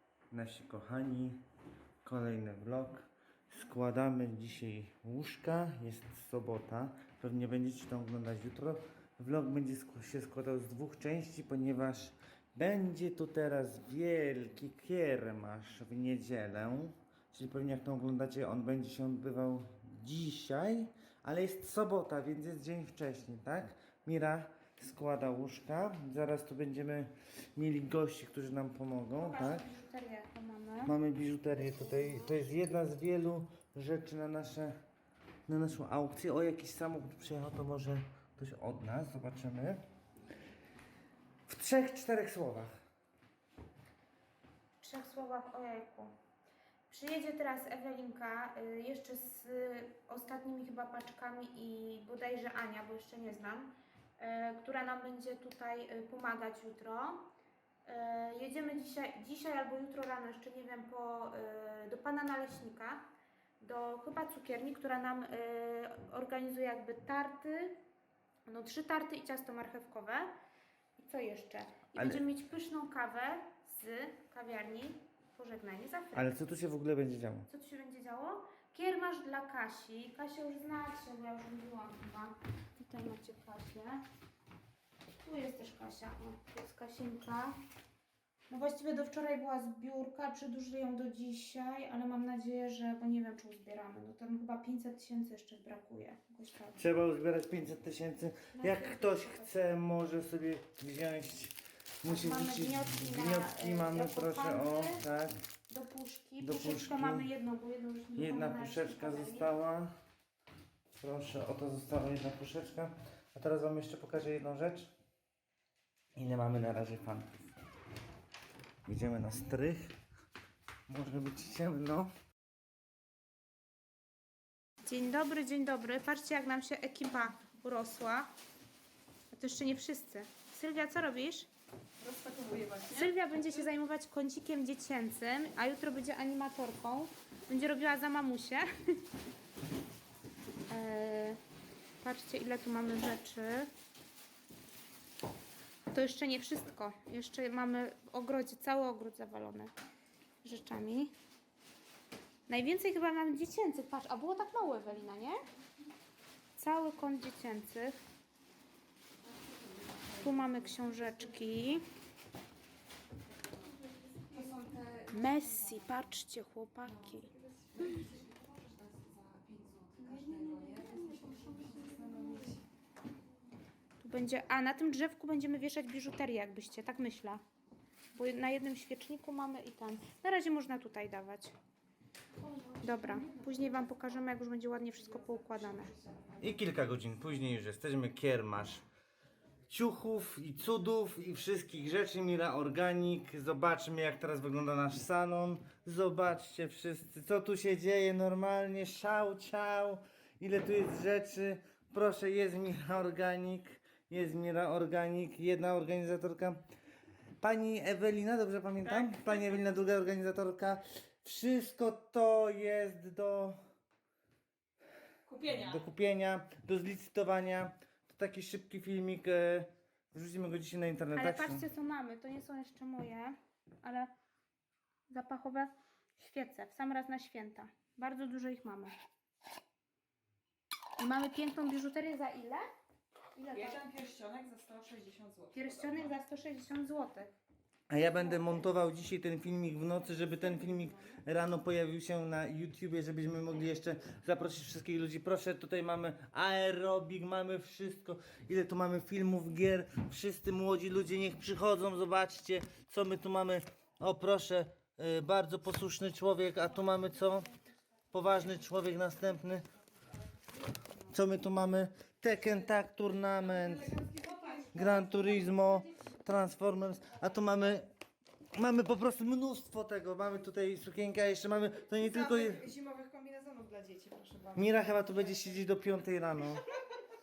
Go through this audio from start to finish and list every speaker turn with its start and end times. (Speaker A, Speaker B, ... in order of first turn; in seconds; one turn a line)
Speaker A: 0.3-1.4
Speaker A: 2.0-29.7
Speaker B: 29.2-30.9
Speaker A: 30.9-34.7
Speaker A: 35.5-39.8
Speaker A: 41.5-42.7
Speaker B: 44.8-46.1
Speaker B: 46.9-57.3
Speaker B: 57.9-63.0
Speaker B: 63.6-67.8
Speaker B: 68.5-70.3
Speaker B: 71.0-76.3
Speaker A: 72.0-72.2
Speaker A: 76.2-77.5
Speaker B: 77.5-84.0
Speaker B: 85.2-87.6
Speaker B: 88.5-96.8
Speaker A: 96.8-105.3
Speaker B: 98.5-99.3
Speaker B: 102.1-105.0
Speaker B: 105.7-109.5
Speaker A: 106.4-107.3
Speaker A: 108.2-109.9
Speaker A: 111.0-114.9
Speaker A: 116.2-117.5
Speaker A: 118.9-120.0
Speaker A: 120.9-122.1
Speaker B: 124.8-128.3
Speaker B: 129.3-131.5
Speaker C: 132.0-133.1
Speaker B: 132.9-139.0
Speaker B: 140.7-141.4
Speaker B: 142.0-143.7
Speaker B: 145.9-149.7
Speaker B: 150.4-151.1
Speaker B: 152.5-155.4
Speaker B: 156.6-158.0
Speaker B: 160.2-161.8
Speaker C: 164.2-165.1
Speaker B: 165.1-167.3
Speaker C: 167.5-172.6
Speaker B: 174.0-177.4
Speaker B: 178.2-181.5
Speaker B: 182.7-185.9
Speaker A: 186.4-188.8
Speaker A: 189.7-206.6
Speaker A: 207.4-213.6
Speaker C: 215.3-215.6
Speaker A: 215.4-221.7
Speaker B: 221.2-224.1
Speaker B: 225.1-228.9
Speaker B: 231.0-232.7
Speaker B: 233.3-233.8
Speaker C: 233.6-236.0
Speaker B: 235.5-237.3
Speaker A: 237.9-257.5
Speaker A: 258.1-259.7
Speaker A: 261.1-264.0
Speaker C: 263.9-264.9
Speaker A: 264.7-267.9
Speaker A: 268.5-272.7
Speaker C: 272.1-274.6
Speaker A: 274.5-276.6